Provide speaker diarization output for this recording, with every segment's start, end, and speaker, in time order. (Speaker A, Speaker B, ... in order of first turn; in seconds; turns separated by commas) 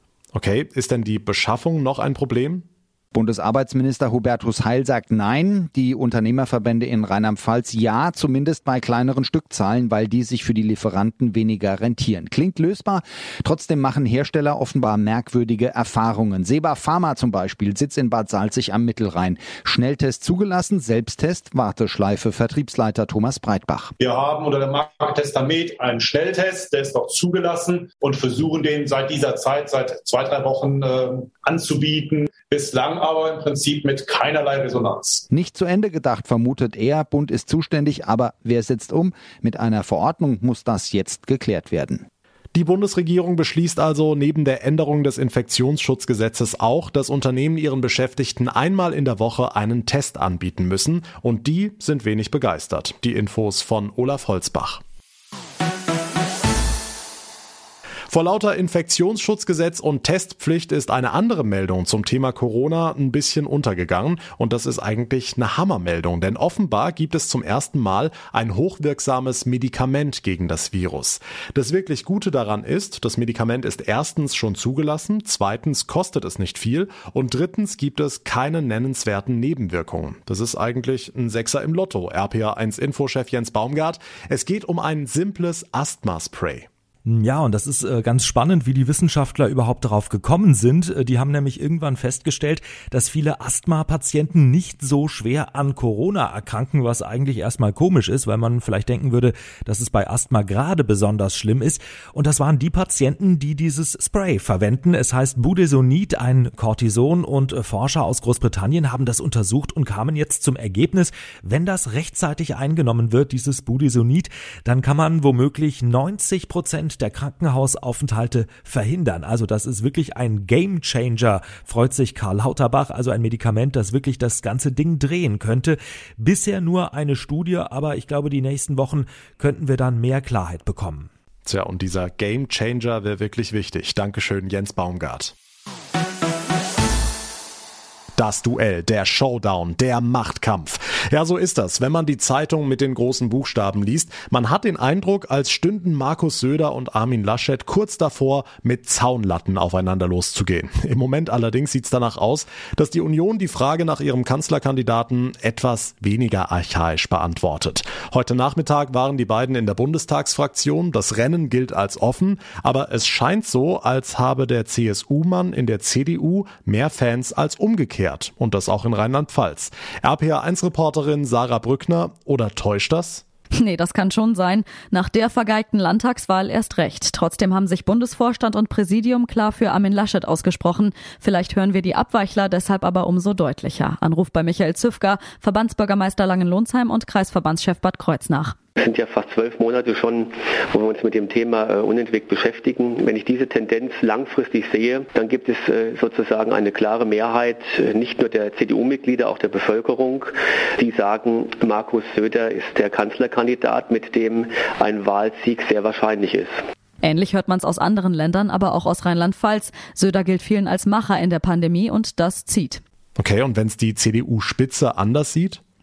Speaker A: 0.4-0.9, Speaker B: 0.5-2.6, Speaker C: 3.1-23.9, Speaker A: 24.0-35.2, Speaker C: 35.3-42.0, Speaker B: 42.6-54.8, Speaker B: 58.1-86.7, Speaker D: 87.0-131.1, Speaker B: 131.5-135.3, Speaker B: 138.2-173.2, Speaker E: 173.6-188.6, Speaker F: 188.9-206.5, Speaker E: 207.0-212.8, Speaker B: 213.2-215.6